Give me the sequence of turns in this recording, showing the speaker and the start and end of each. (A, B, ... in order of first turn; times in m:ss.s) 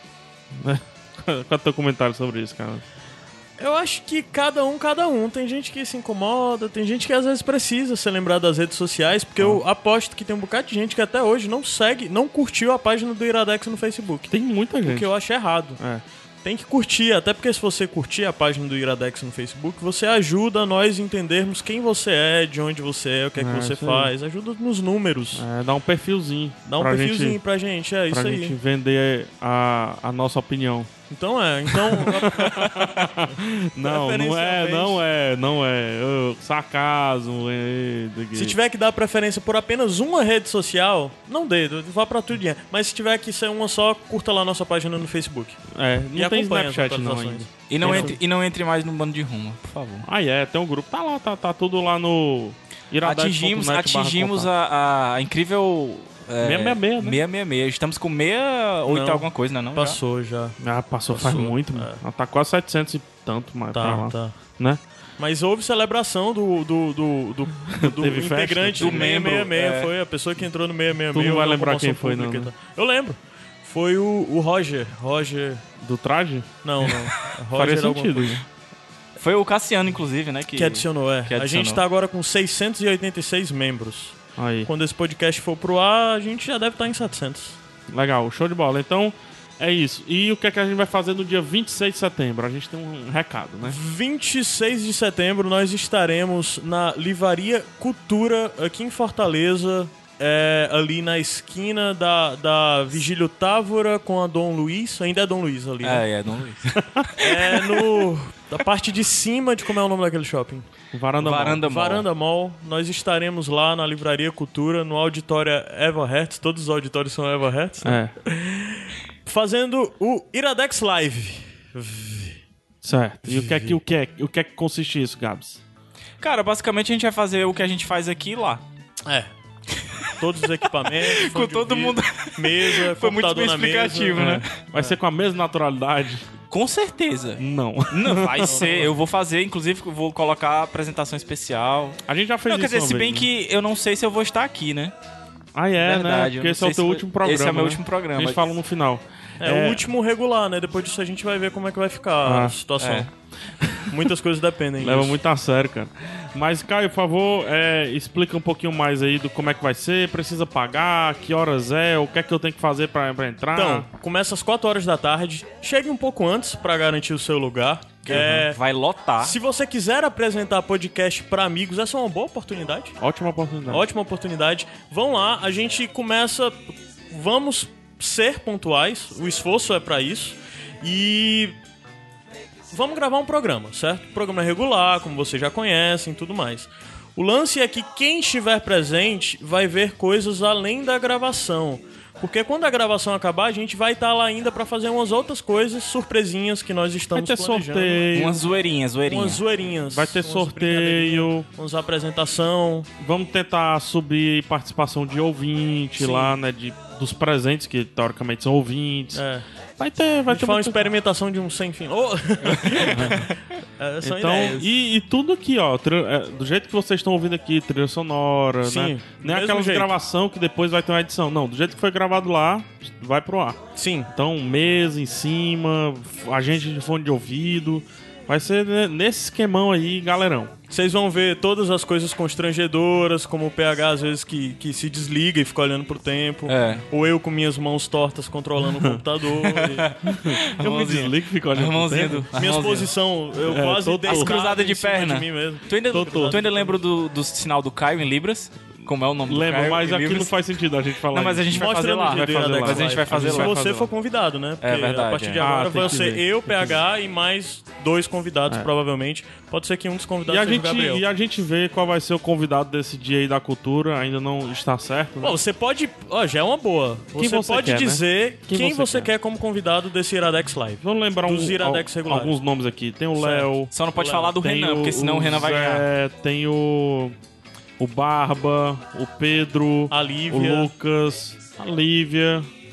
0:00.5-0:02.8 A
0:03.6-0:14.3 B
0:14.3-0:15.1 A
0:14.8-0:15.8 B
0:15.8-0:16.0 A
0:16.4-0:25.4 B
0:23.4-0:24.1 A
0:25.4-0:27.4 A
0:26.7-0:28.6 B
0:28.1-0:30.9 A
0:31.1-0:32.4 B
0:31.7-0:38.6 A
0:32.4-0:33.2 C
0:33.8-0:35.0 C
0:38.4-0:45.6 B
0:45.7-0:48.2 A
0:46.2-0:48.2 B
0:47.7-0:50.1 C
0:50.0-0:54.5 A
0:53.0-1:00.0 C
0:56.4-0:57.2 A
0:58.9-1:00.6 B
1:00.6-1:04.8 A
1:01.1-1:02.0 B
1:03.7-1:04.4 B
1:05.2-1:15.6 B
1:07.7-1:09.3 A
1:08.8-1:09.9 C
1:11.1-1:12.5 A
1:15.8-1:16.5 A
1:16.6-1:18.4 B
1:17.5-1:18.4 A
1:19.2-1:21.8 C
1:20.5-1:27.6 B
1:24.4-1:24.7 A
1:27.9-1:33.8 A
1:33.6-1:46.0 B
1:45.8-1:47.8 C
1:47.2-1:50.7 B
1:50.9-1:51.6 A
1:51.2-1:52.0 C
1:51.6-2:02.4 B
1:57.8-1:58.1 A
2:02.8-2:05.6 A
2:03.3-2:03.8 B
2:06.2-2:08.6 C
2:10.2-2:15.0 B
2:10.9-2:14.5 C
2:14.2-2:16.3 A
2:16.5-2:24.9 C
2:17.4-2:18.6 A
2:18.4-2:18.9 B
2:22.1-2:23.3 A
2:25.5-2:29.8 A
2:25.8-2:28.4 C
2:29.4-2:33.1 B
2:32.2-2:32.6 A
2:32.8-2:33.1 C
2:33.9-2:35.2 B
2:34.8-2:43.9 A
2:43.6-2:48.6 B
2:48.1-2:49.4 C
2:49.2-2:53.0 B
2:53.0-2:53.8 A
2:53.7-3:01.6 B
3:02.7-3:18.2 B
3:17.2-3:18.4 A
3:18.1-3:19.4 C
3:19.1-3:22.9 B
3:19.9-3:21.5 A
3:23.0-3:29.2 A
3:26.0-3:26.4 B
3:29.1-3:29.4 B
3:29.8-3:30.8 A
3:30.3-3:34.7 B
3:32.8-3:33.3 A
3:34.0-3:43.6 A
3:38.6-3:39.9 B
3:43.8-3:44.1 B
3:44.1-3:50.5 A
3:50.7-3:59.9 B
3:56.5-3:56.8 C
3:58.6-3:59.0 A
3:59.4-4:02.9 C
4:00.1-4:02.3 A
4:02.3-4:06.8 B
4:03.4-4:04.3 A
4:04.1-4:10.5 C
4:06.0-4:06.4 A
4:09.3-4:13.9 A
4:11.1-4:13.6 C
4:11.6-4:21.0 B
4:14.6-4:15.7 C
4:15.4-4:16.8 A
4:20.3-4:25.4 A
4:25.2-4:32.4 B
4:27.2-4:29.1 A
4:30.8-4:33.7 A
4:33.2-4:34.3 B
4:33.7-4:35.8 C
4:34.3-4:37.2 A
4:37.8-4:42.5 A
4:39.9-4:40.7 B